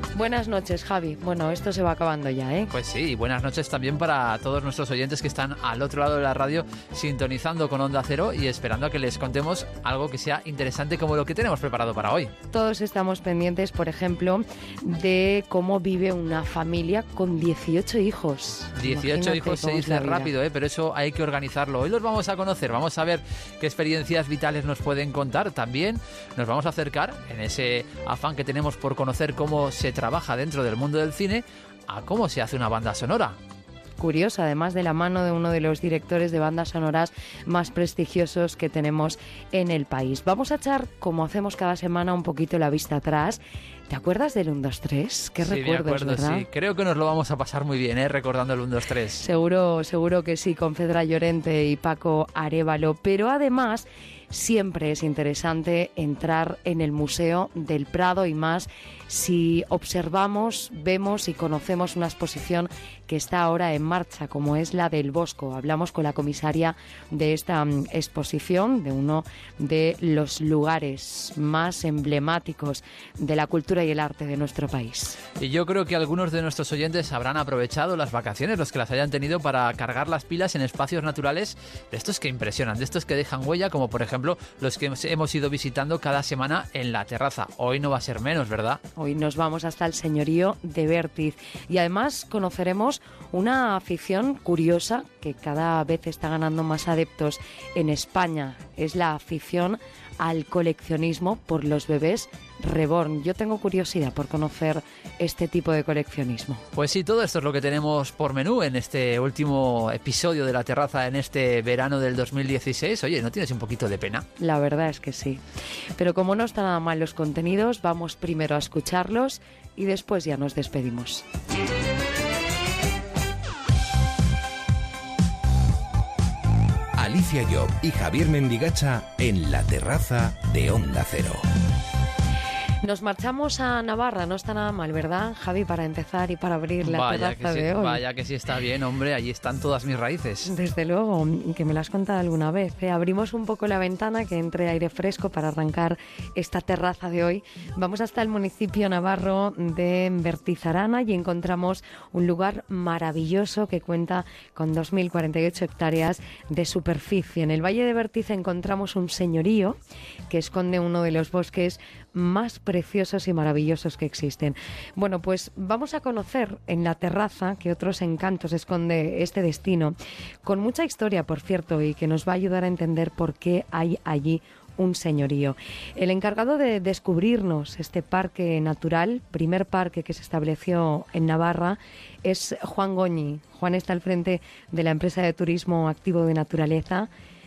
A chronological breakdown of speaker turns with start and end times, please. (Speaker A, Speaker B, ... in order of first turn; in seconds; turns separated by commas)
Speaker A: 0.1-2.7, Speaker B: 2.7-12.3, Speaker A: 12.5-20.3, Speaker B: 18.8-33.4, Speaker A: 34.0-46.4, Speaker B: 45.4-49.2, Speaker A: 49.2-75.2, Speaker B: 75.4-88.8, Speaker A: 89.0-106.6, Speaker B: 106.7-114.2, Speaker A: 114.4-115.4, Speaker A: 116.0-121.2, Speaker C: 127.0-131.4, Speaker A: 132.8-138.0, Speaker B: 136.8-140.5, Speaker A: 140.4-187.1